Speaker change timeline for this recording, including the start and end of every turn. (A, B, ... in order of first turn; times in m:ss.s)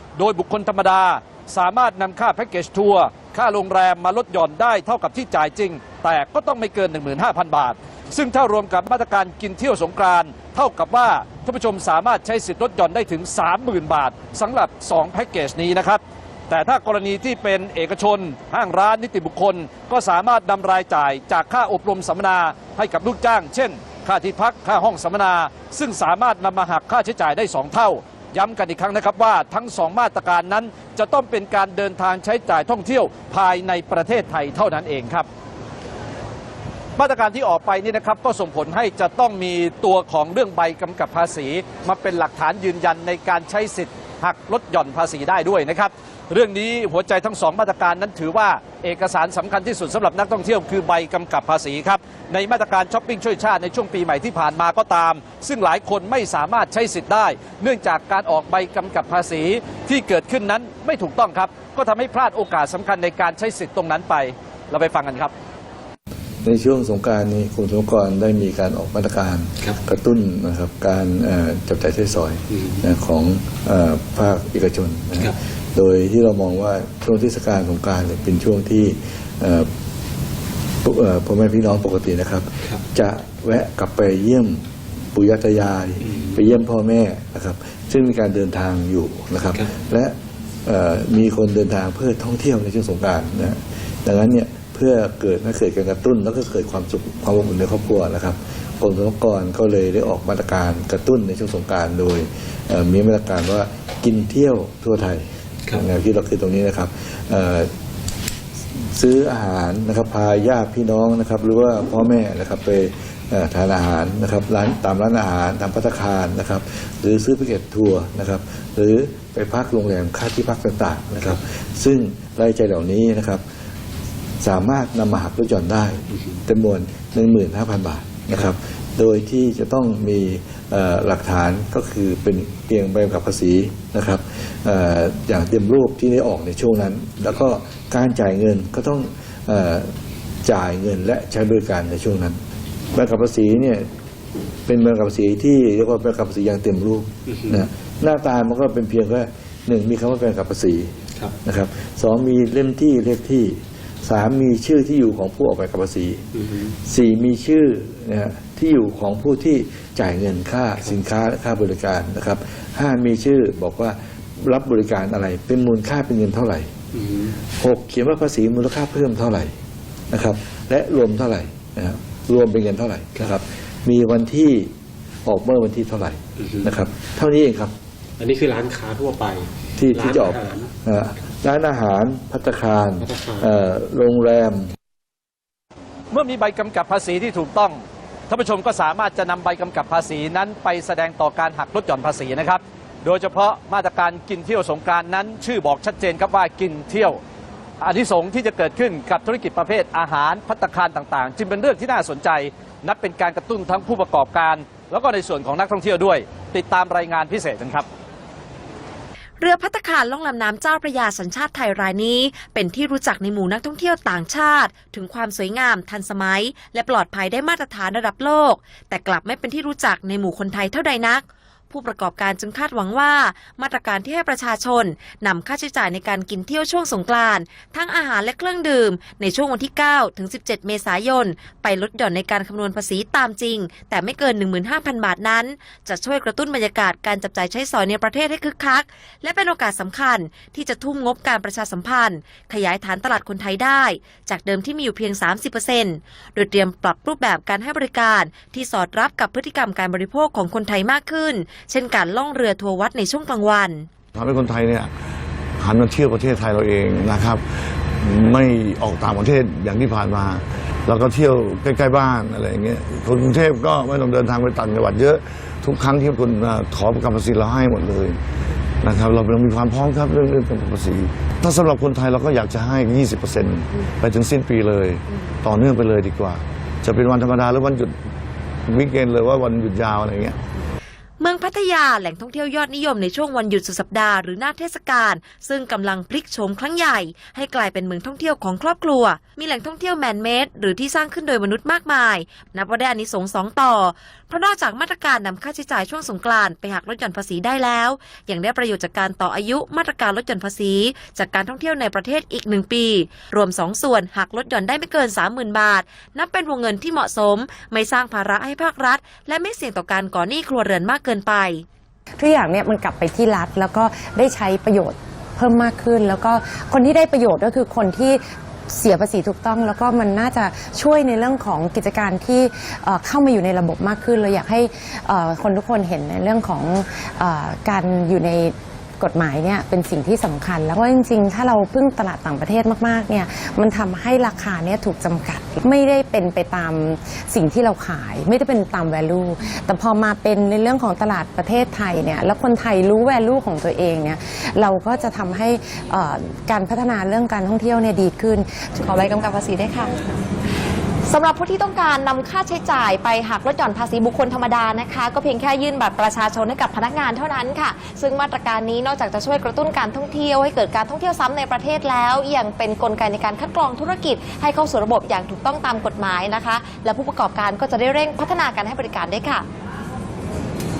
0:00.2-0:35.3 A
0:37.0-1:05.3 A
1:06.4-1:19.7 B
1:12.5-1:12.8 C
1:20.8-1:30.1 B
1:30.6-1:47.7 B
1:48.8-2:03.4 B
2:04.4-2:19.9 B
2:20.4-2:22.4 B
2:22.9-2:23.9 B
2:24.7-2:36.2 B
2:27.2-2:27.7 C
2:36.3-2:36.8 C
2:36.8-2:46.7 B
2:46.9-2:47.4 C
2:47.6-2:49.5 B
2:50.1-2:54.7 B
2:55.2-2:57.7 B
2:56.4-2:56.9 C
2:58.2-3:00.7 C
2:59.8-3:04.7 B
3:03.0-3:03.5 C
3:06.1-3:17.2 A
3:17.8-3:27.9 A
3:29.4-4:13.9 D
4:14.1-4:14.9 E
4:15.6-4:28.2 E
4:28.8-4:37.9 E
4:38.6-4:40.4 E
4:41.2-5:11.6 D
5:12.2-5:48.5 F
5:48.8-5:50.0 G
5:51.0-6:09.5 G